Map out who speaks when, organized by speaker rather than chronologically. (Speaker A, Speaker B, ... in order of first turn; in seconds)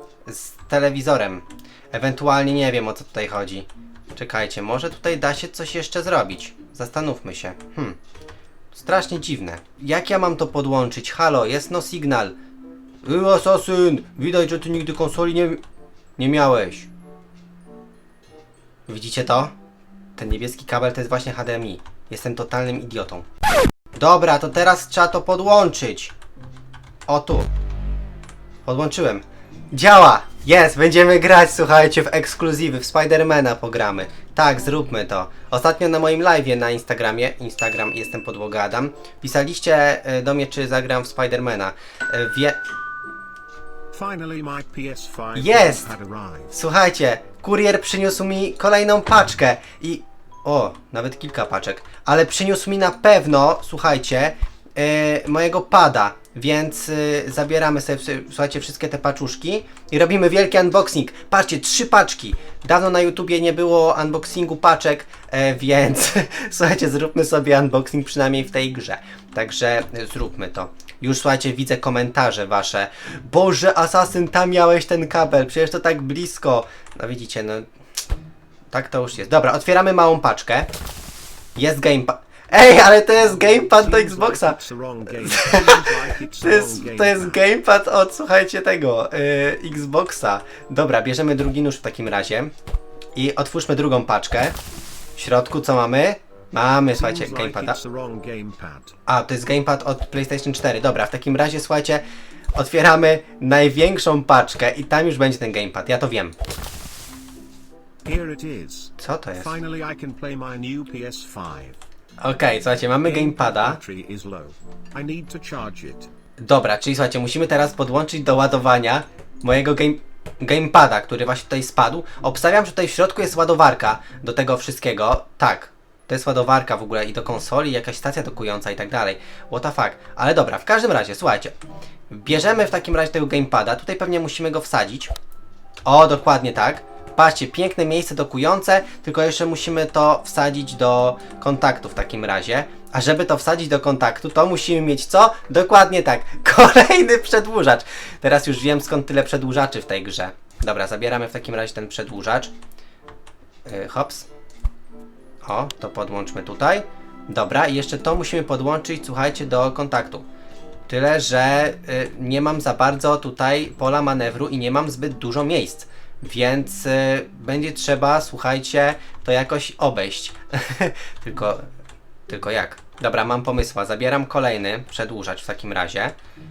Speaker A: 0.2-8.0, 8.7-12.3, 13.0-15.6, 16.2-16.9, 18.9-19.5, 20.2-23.2, 23.9-26.1, 27.1-27.5, 28.6-42.6, 45.3-45.9, 46.5-77.7, 78.7-80.7, 81.5-84.6, 85.2-85.8, 86.4-92.5, 93.1-94.5, 95.2-97.8, 99.1-102.0, 102.5-106.3, 109.0-109.5, 112.2-113.8, 116.4-131.5, 132.1-135.1, 135.8-152.5, 153.7-154.3, 155.4-160.2, 160.9-171.7, 172.3-176.1
Speaker B: 43.9-46.5, 83.5-87.4, 97.0-98.9, 108.0-111.8, 113.0-116.1